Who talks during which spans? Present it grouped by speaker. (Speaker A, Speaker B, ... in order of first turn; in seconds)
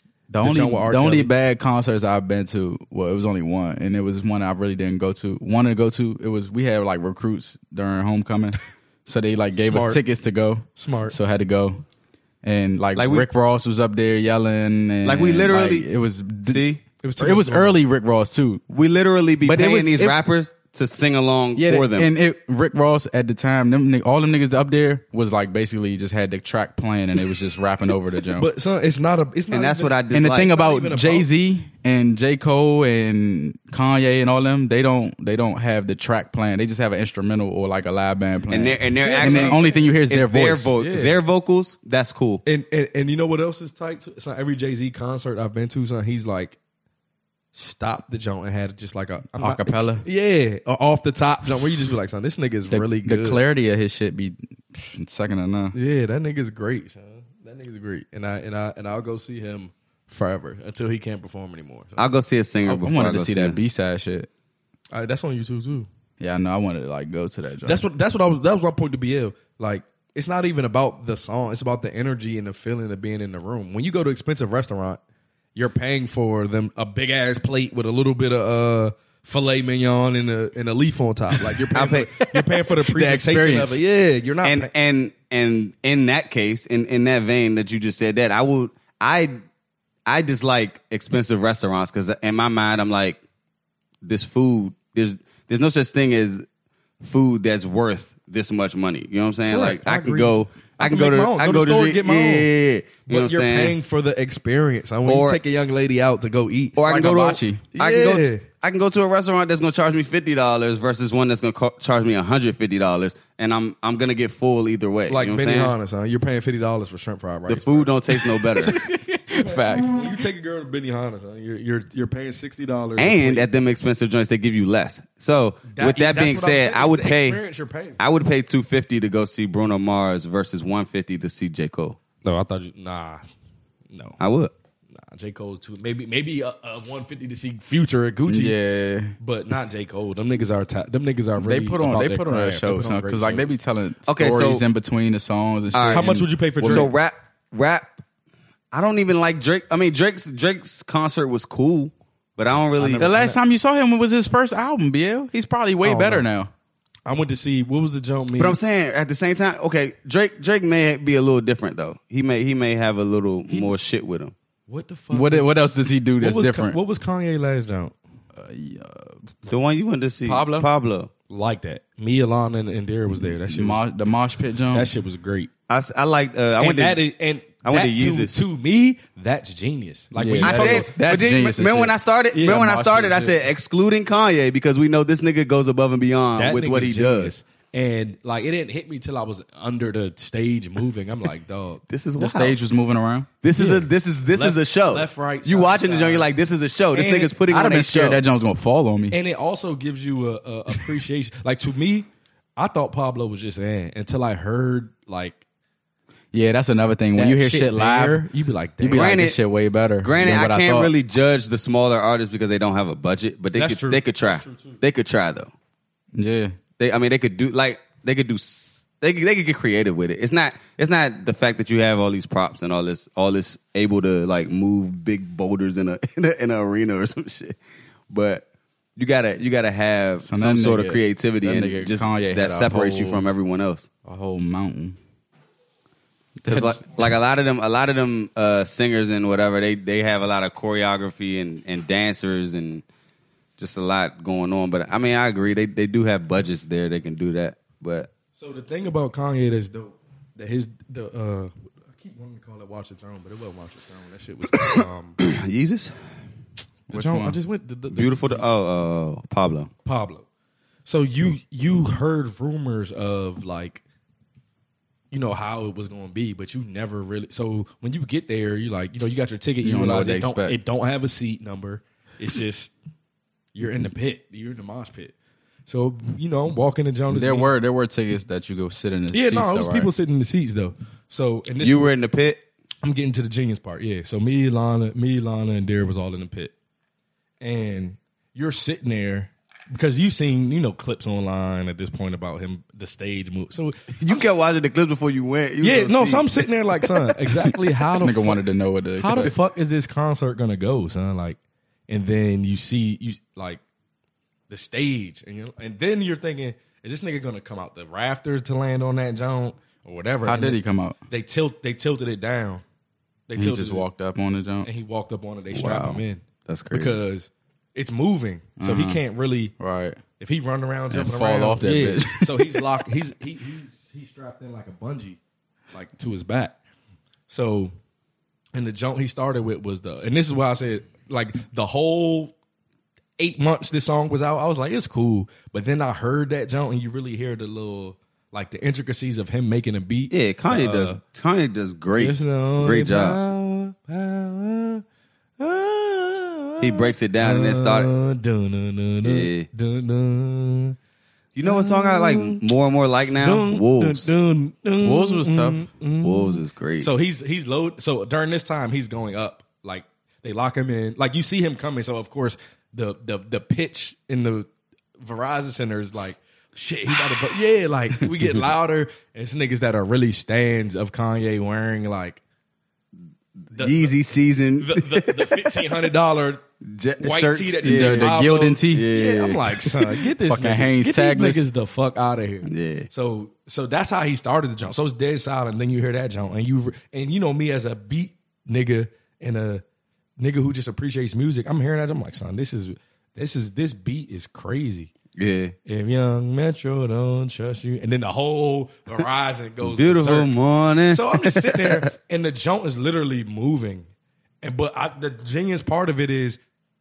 Speaker A: 0.3-11.8, 12.4-16.6, 17.2-18.6, 19.4-20.2, 21.6-28.5, 30.1-40.7, 49.4-50.0, 52.7-55.8, 62.7-64.3, 66.2-67.8, 82.9-83.8, 106.8-107.6, 118.6-120.0, 138.3-139.1, 141.4-146.9, 153.0-156.5, 165.1-166.8, 168.3-169.3, 170.2-170.7, 173.4-174.9, 180.1-183.3, 192.2-193.3, 197.5-199.2, 206.3-208.2, 208.8-210.9, 216.1-216.5, 230.2-233.2, 234.0-235.0, 236.4-236.8, 256.9-257.4, 269.6-270.6, 277.1-279.9, 297.9-299.3, 310.2-311.0, 313.4-314.7, 318.6-319.0, 319.6-320.0, 320.9-322.6, 354.8-355.6, 377.6-378.9, 380.2-381.4
Speaker B: 0.4-1.3, 9.6-10.0, 10.8-11.2, 17.0-17.8, 28.4-31.3, 39.0-39.8, 40.8-41.2, 42.4-46.6, 47.5-53.4, 55.7-62.0, 64.9-65.9, 67.6-75.0, 75.5-84.7, 99.5-102.5, 103.1-106.8, 107.7-108.4, 115.1-117.9, 119.3-123.5, 125.7-128.0, 132.2-133.2, 133.9-134.2, 134.9-138.6, 139.2-143.5, 145.9-146.9, 152.8-153.4, 155.8-156.2, 157.1-158.6, 164.7-165.5, 166.2-167.9, 171.3-173.8, 174.7-175.5, 176.6-181.0, 182.3-182.8, 186.3-191.8, 193.5-196.3, 196.9-197.4, 199.1-205.4, 207.1-209.1, 213.5-214.8, 248.3-255.2, 256.9-258.4, 259.8-260.2, 260.9-263.8, 265.1-272.7, 273.5-275.1, 275.7-277.5, 279.1-281.9, 282.8-286.5, 287.4-294.3, 295.6-298.4, 299.0-301.4, 301.9-303.6, 304.5-312.6, 313.3-313.8, 314.6-319.5, 320.2-325.2, 325.7-326.6, 327.3-327.7, 328.5-332.3, 333.2-341.0, 342.0-344.8, 345.4-350.8, 351.4-352.4, 353.1-372.2, 373.5-373.9, 374.6-376.4, 377.0-389.6, 390.2-394.9, 395.6-400.3, 400.9-403.9, 404.4-406.4
Speaker C: 12.9-13.3, 15.0-15.9, 16.4-16.8, 18.7-22.1, 29.5-30.6, 38.5-42.4, 62.0-63.6, 81.7-82.1, 84.4-89.4, 90.0-93.2, 94.0-96.4, 97.0-103.8, 105.0-105.4, 106.8-115.7, 117.5-118.7, 123.0-127.4, 128.0-132.0, 134.2-134.5, 144.1-144.6, 145.7-146.1, 146.6-148.0, 148.7-153.1, 158.4-164.3, 169.4-171.1, 175.7-177.0, 177.6-178.4, 180.4-187.3, 191.9-192.6, 193.4-198.2, 208.8-209.4, 210.0-215.5, 216.8-227.6, 228.1-228.4, 229.0-233.9, 236.5-242.8, 243.6-248.1, 254.7-255.9, 257.9-259.7, 281.6-282.4, 294.0-296.4, 315.5-317.0, 340.1-343.2, 346.6-347.9, 349.0-349.5, 351.3-354.1, 356.0-356.9, 373.5-375.6, 376.6-378.1, 378.7-379.7, 382.4-382.9, 395.1-395.5, 399.6-401.9